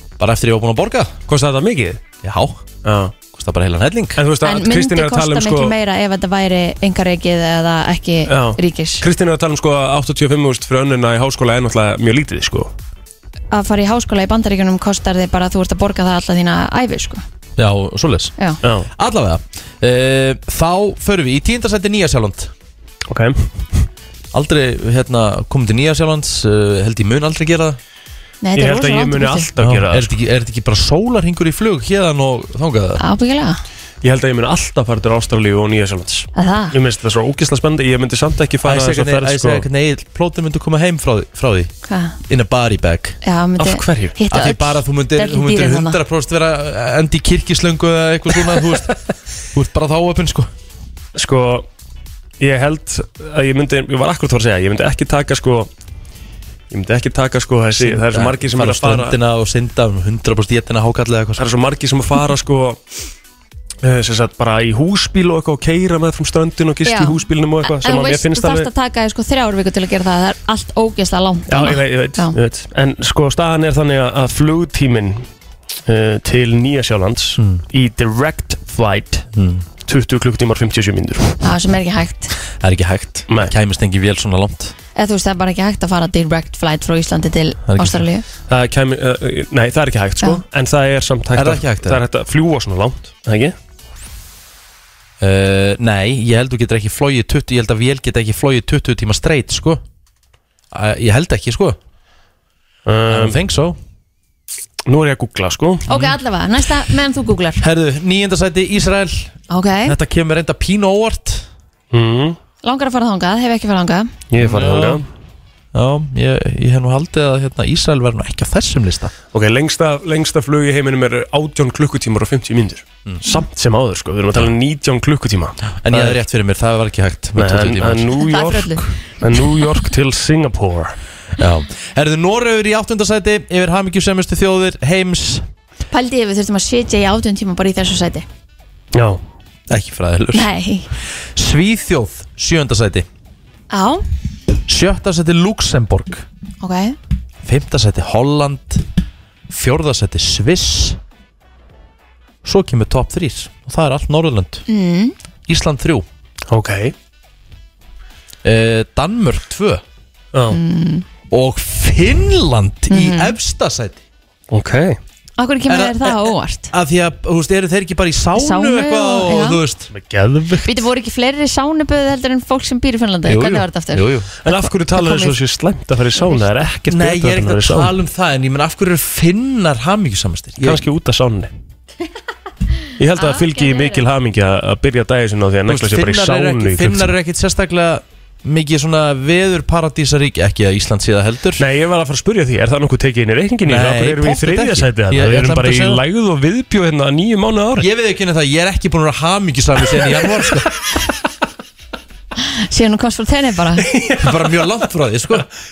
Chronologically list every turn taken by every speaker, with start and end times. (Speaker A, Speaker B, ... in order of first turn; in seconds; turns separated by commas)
Speaker A: 0.2-1.1, Speaker B: 1.3-2.0, Speaker A: 2.2-2.6, Speaker B: 2.8-3.1, Speaker A: 3.3-4.2, Speaker B: 4.2-5.7, Speaker C: 4.4-9.0, Speaker B: 8.3-12.7, Speaker C: 13.5-17.2, Speaker A: 17.6-18.3, Speaker B: 18.6-18.9, Speaker A: 19.0-22.5, Speaker B: 23.1-23.8, Speaker A: 24.3-27.8, Speaker C: 28.4-29.5, Speaker B: 28.6-30.1, Speaker A: 29.6-33.0, Speaker C: 33.0-33.6, Speaker B: 34.0-39.6, Speaker C: 36.4-36.8, Speaker A: 38.6-41.7, Speaker C: 41.9-42.2, Speaker A: 42.3-43.2, Speaker C: 43.2-46.0, Speaker B: 43.6-44.1, Speaker A: 44.3-49.0, Speaker A: 49.5-50.5, Speaker B: 51.1-51.7, Speaker B: 52.4-55.7, Speaker B: 56.7-59.2, Speaker A: 57.8-61.5, Speaker B: 61.4-62.8, Speaker B: 63.8-68.7, Speaker C: 66.8-72.3, Speaker B: 71.5-75.3, Speaker B: 75.9-79.3, Speaker A: 79.4-79.7, Speaker B: 79.8-81.4, Speaker C: 81.4-82.3, Speaker A: 82.6-84.7, Speaker C: 85.0-88.2, Speaker A: 87.7-88.1, Speaker B: 88.5-93.5, Speaker A: 91.3-92.0, Speaker A: 95.2-99.8, Speaker A: 100.7-101.8, Speaker B: 102.9-103.4, Speaker A: 103.1-103.8, Speaker B: 104.9-105.8, Speaker C: 105.9-107.6, Speaker A: 105.9-106.2, Speaker A: 107.6-111.5, Speaker C: 109.5-110.0, Speaker B: 111.9-112.4, Speaker C: 112.6-114.1, Speaker B: 114.3-115.0, Speaker A: 114.4-115.0, Speaker A: 115.7-119.1, Speaker B: 119.3-126.2, Speaker A: 125.8-128.2, Speaker B: 127.4-131.0, Speaker C: 128.2-128.8, Speaker A: 131.4-135.5, Speaker C: 135.9-138.2, Speaker B: 138.9-139.2, Speaker A: 139.7-140.5, Speaker C: 140.3-140.9, Speaker A: 141.2-143.1, Speaker C: 143.7-144.0, Speaker A: 144.7-146.3, Speaker C: 146.6-147.0, Speaker A: 147.4-148.8, Speaker A: 149.5-151.0, Speaker A: 152.4-154.7, Speaker C: 154.7-155.2, Speaker A: 155.5-156.1, Speaker B: 156.5-156.9, Speaker A: 158.4-159.8, Speaker C: 160.5-161.1, Speaker A: 161.3-164.0, Speaker C: 162.9-163.4, Speaker B: 164.5-165.0, Speaker C: 165.4-166.7, Speaker A: 165.7-169.9, Speaker C: 168.4-169.6, Speaker B: 169.9-170.8, Speaker C: 170.7-175.4, Speaker A: 173.2-174.3, Speaker B: 174.4-177.9, Speaker A: 176.9-180.8, Speaker B: 180.6-181.5, Speaker B: 183.0-187.1, Speaker C: 183.2-184.0, Speaker A: 185.7-191.7, Speaker B: 191.6-197.9, Speaker A: 193.7-196.0, Speaker A: 197.8-200.7, Speaker C: 202.4-203.9, Speaker B: 203.9-204.6, Speaker A: 204.2-205.4